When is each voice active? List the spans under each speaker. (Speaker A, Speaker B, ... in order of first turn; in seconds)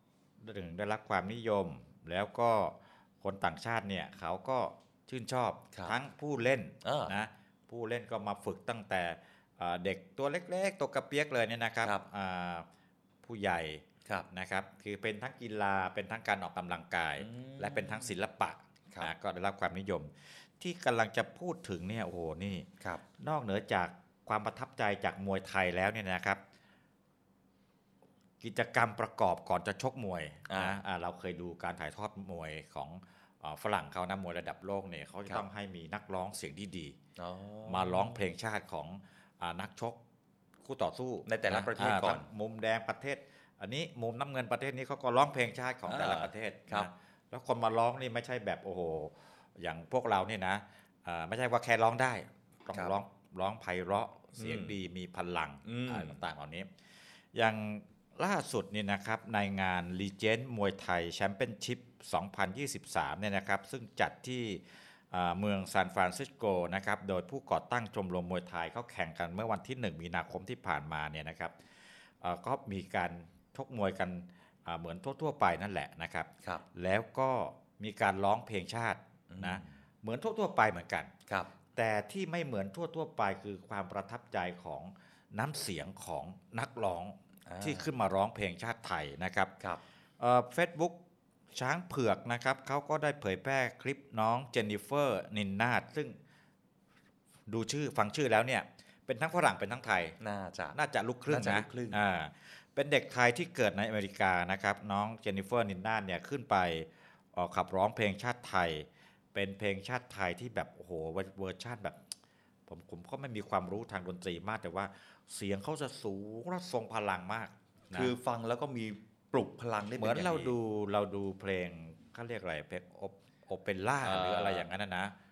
Speaker A: 0.4-12.7, 13.2-22.7, 23.2-26.4, 28.4-37.0, 37.7-40.0, 40.6-56.7, 57.3-71.5, 72.2-81.1, 81.8-89.5, 90.2-90.9, 91.5-96.2, 97.5-100.2, 100.7-112.0, 112.7-118.1, 120.0-125.1
Speaker B: 6.8-7.1, 17.2-18.1, 30.5-30.8, 37.2-38.2, 41.3-42.2, 45.9-46.9, 54.4-54.7, 55.6-56.2, 79.3-79.7, 87.5-87.9, 100.2-100.8, 101.3-102.0, 117.9-120.5, 124.0-124.7